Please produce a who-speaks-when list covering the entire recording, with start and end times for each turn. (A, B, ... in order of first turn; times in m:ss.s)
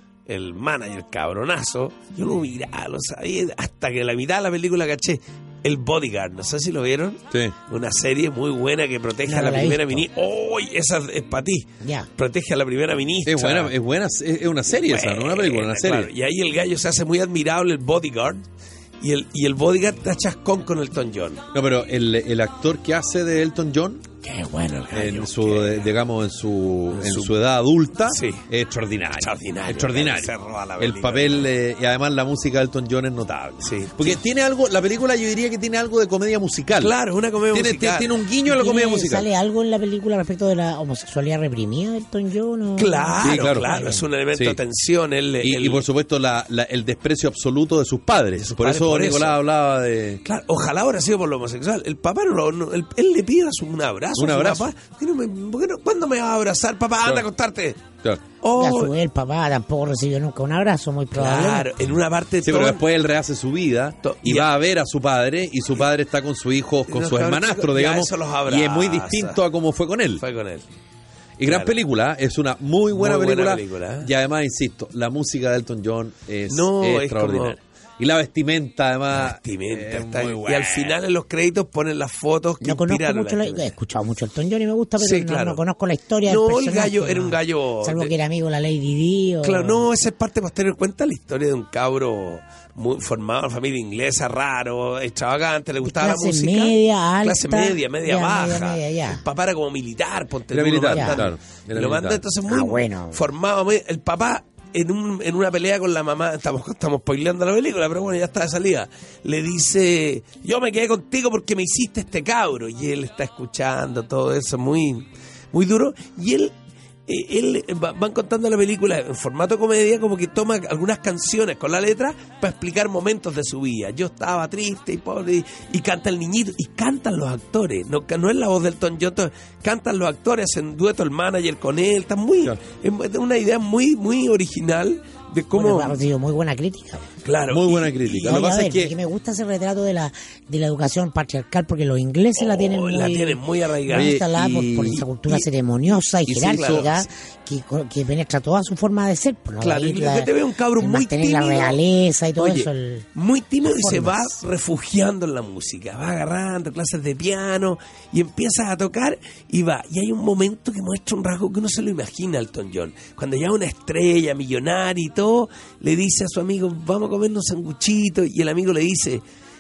0:00.3-0:13.7 A
0:09.3-0:10.0 B
0:11.8-0:12.1 B
0:13.2-0:16.1 C
0:14.7-0:18.4 A
0:19.0-0:21.4 A
0:21.5-0:24.0 C
0:24.2-0:25.8 A
0:24.9-0:37.0 C
0:26.9-0:27.3 A
0:28.1-0:28.4 A
0:29.2-0:31.5 A
0:33.6-0:34.2 A
0:36.8-0:38.2 A
0:37.5-0:39.3 C
0:38.4-0:44.0 B
0:42.8-0:45.8 A
0:43.2-0:43.7 C
0:45.4-0:50.2 C
0:48.4-0:49.4 A
0:50.2-0:57.8 A
0:54.2-0:54.7 C
0:58.4-0:58.9 A
0:58.6-1:01.7 B
1:01.2-1:02.8 A
1:02.4-1:10.2 C
1:04.0-1:04.5 A
1:06.9-1:09.4 A
1:10.2-1:10.7 A
1:11.4-1:21.0 C
1:11.4-1:11.8 A
1:12.9-1:14.1 A
1:16.5-1:17.6 A
1:19.1-1:23.7 A
1:22.6-1:29.8 B
1:25.0-1:25.6 A
1:26.2-1:28.1 A
1:29.4-1:56.5 A
1:35.8-1:39.2 B
1:40.5-1:42.2 C
1:40.9-1:41.2 B
1:42.5-1:43.2 B
1:57.1-2:16.0 A
2:15.5-2:17.1 B
2:17.2-2:18.4 A
2:17.5-2:19.0 C
2:18.2-2:33.1 B
2:22.4-2:25.4 A
2:23.9-2:25.0 C
2:26.2-2:27.1 A
2:26.5-2:26.8 C
2:29.6-2:31.8 A
2:32.4-2:49.2 A
2:33.6-2:34.4 B